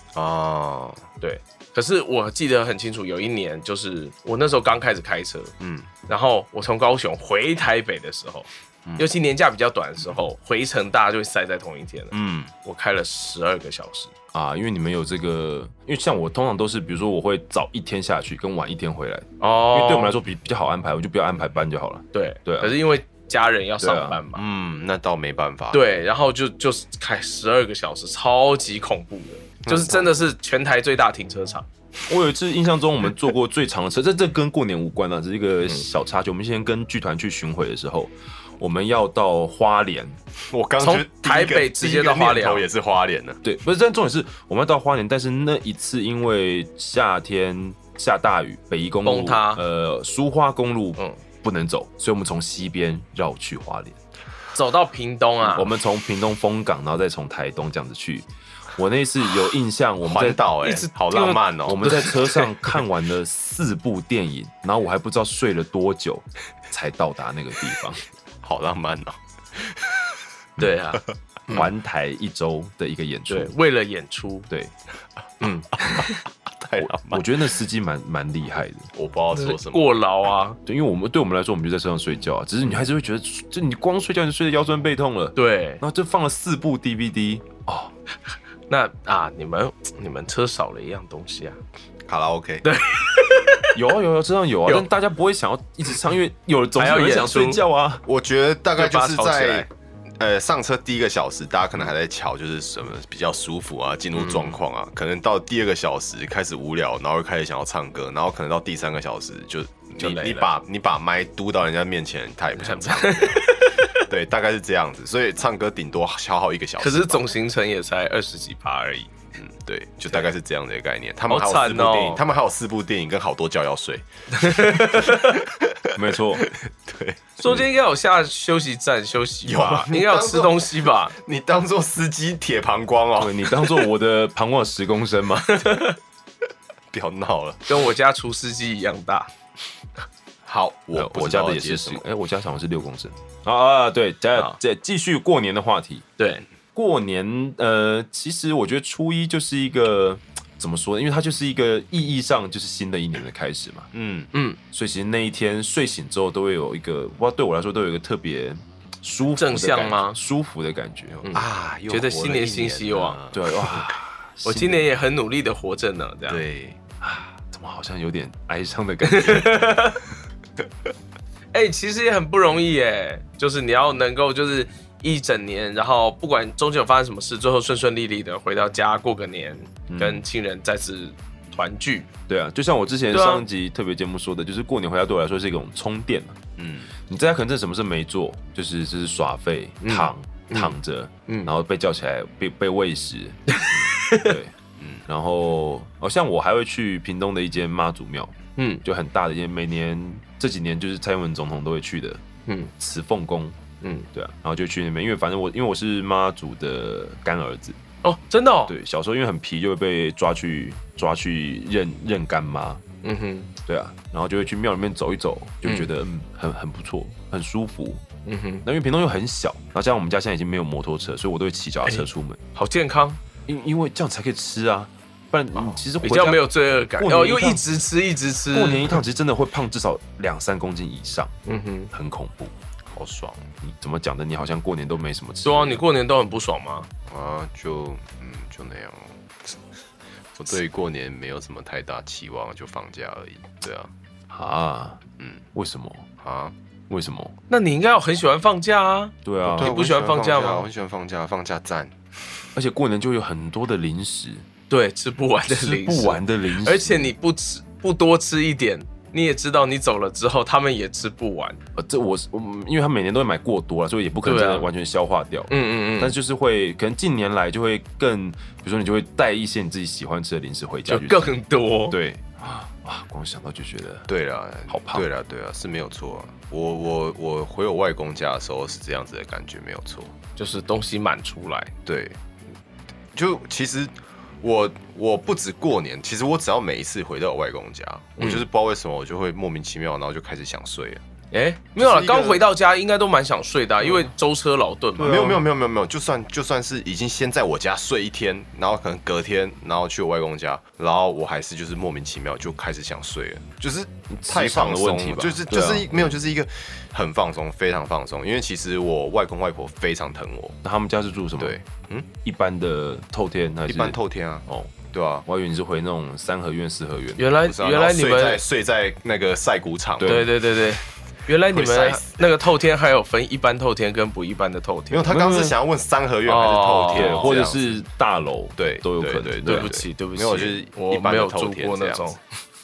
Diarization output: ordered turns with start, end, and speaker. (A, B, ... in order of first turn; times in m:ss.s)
0:00.1-0:01.0 A
0:01.2-0:05.5 B
0:05.6-0:05.9 A
0:06.1-0:14.1 B
0:12.1-0:12.5 A
0:14.3-0:22.8 C
0:19.4-0:20.2 B
0:22.1-0:24.4 B
0:23.8-0:24.2 C
0:24.3-0:25.8 A
0:25.7-0:31.7 B
0:29.6-0:30.2 A
0:32.1-0:40.2 C
0:40.5-0:43.4 A
0:40.8-0:42.6 B
0:43.4-0:54.0 C
0:49.0-0:49.6 B
0:54.5-0:55.7 B
0:55.4-1:00.4 C
1:00.0-1:02.2 A
1:00.6-1:02.5 B
1:01.6-1:08.0 C
1:08.4-1:10.1 A
1:10.6-1:11.7 B
1:11.5-1:13.5 C
1:13.3-1:14.5 B
1:15.4-1:16.2 B
1:15.8-1:16.1 A
1:16.6-1:17.3 A
1:16.8-1:18.9 C
1:18.9-1:19.9 A
1:19.3-1:20.6 B
1:20.6-1:27.9 C
1:25.4-1:25.8 B
1:28.7-1:31.6 B
1:32.1-1:32.6 A
1:32.6-1:33.7 B
1:33.7-1:38.0 C
1:36.8-1:37.6 B
1:38.0-1:39.7 A
1:38.8-1:39.7 B
1:40.2-1:57.3 A
1:44.2-1:44.6 B
1:50.0-1:50.5 B
1:52.5-1:54.1 B
1:56.8-1:59.1 B
1:59.4-2:07.2 A
2:01.3-2:02.2 B
2:04.3-2:05.4 B
2:05.9-2:06.5 C
2:07.4-2:11.1 B
2:09.4-2:13.7 A
2:13.2-2:15.8 C
2:15.5-2:16.0 B
2:16.9-2:17.7 A
2:17.7-2:19.3 B
2:20.4-2:22.0 A
2:20.9-2:26.0 C
2:26.2-2:26.4 B
2:26.7-2:33.9 C
2:33.9-2:34.3 A
2:34.3-2:34.6 B
2:34.7-2:41.3 C
2:39.4-2:40.2 B
2:41.2-2:43.9 A
2:41.2-2:43.2 B
2:43.3-2:44.8 C
2:44.4-2:46.4 B
2:46.3-2:46.8 A
2:47.0-2:49.7 C
2:49.0-2:50.0 B
2:51.5-3:02.1 B
2:59.9-3:00.2 C
3:02.3-3:06.4 C
3:03.1-3:03.4 B
3:06.6-3:06.9 A
3:07.0-3:14.5 C
3:09.8-3:10.7 B
3:13.5-3:14.4 B
3:14.8-3:15.0 A
3:15.1-3:22.2 C
3:18.6-3:18.8 B
3:22.8-3:23.6 C
3:23.8-3:24.1 B
3:24.1-3:27.8 C
3:28.0-3:28.7 B
3:28.7-3:32.8 C
3:33.0-3:33.5 B
3:33.6-3:38.0 C
3:35.6-3:35.9 B
3:38.2-3:38.6 B
3:38.6-3:42.4 C
3:41.8-3:43.2 B
3:43.5-3:47.6 C
3:46.0-3:49.0 B
3:48.5-3:51.3 C
3:51.4-3:51.9 B
3:51.9-3:52.5 C
3:52.9-3:53.5 A
3:53.6-3:55.8 C
3:55.4-3:56.9 B
3:57.1-3:59.5 A
4:00.4-4:03.9 A
4:04.3-4:05.0 C
4:05.2-4:05.4 A
4:05.5-4:06.1 C
4:06.2-4:06.5 A
4:06.9-4:07.3 C
4:07.5-4:10.7 B
4:09.2-4:09.7 C
4:09.5-4:11.9 A
4:12.5-4:14.4 C
4:14.7-4:21.6 B
4:15.5-4:17.1 C
4:21.7-4:31.4 C
4:24.2-4:24.7 B
4:25.5-4:26.1 B
4:30.9-4:32.0 B
4:31.9-4:34.1 C
4:34.1-4:40.1 A
4:34.7-4:35.0 C
4:40.4-4:41.7 B
4:41.8-4:42.2 A
4:43.1-4:51.0 A
4:48.2-4:48.4 B
4:51.3-4:55.2 B
4:51.8-4:52.4 A
4:55.0-4:55.5 C
4:55.0-5:10.6 A
5:04.1-5:06.2 C
5:10.6-5:11.6 C
5:11.4-5:12.1 A
5:12.2-5:14.7 C
5:13.7-5:15.2 A
5:15.2-5:17.2 C
5:17.2-5:18.4 B
5:17.4-5:20.3 A
5:20.0-5:20.3 C
5:20.0-5:25.1 B
5:21.5-5:22.3 A
5:24.9-5:27.8 A
5:25.1-5:25.5 C
5:26.2-5:27.4 B
5:26.9-5:29.7 C
5:28.6-5:32.1 A
5:29.4-5:32.2 B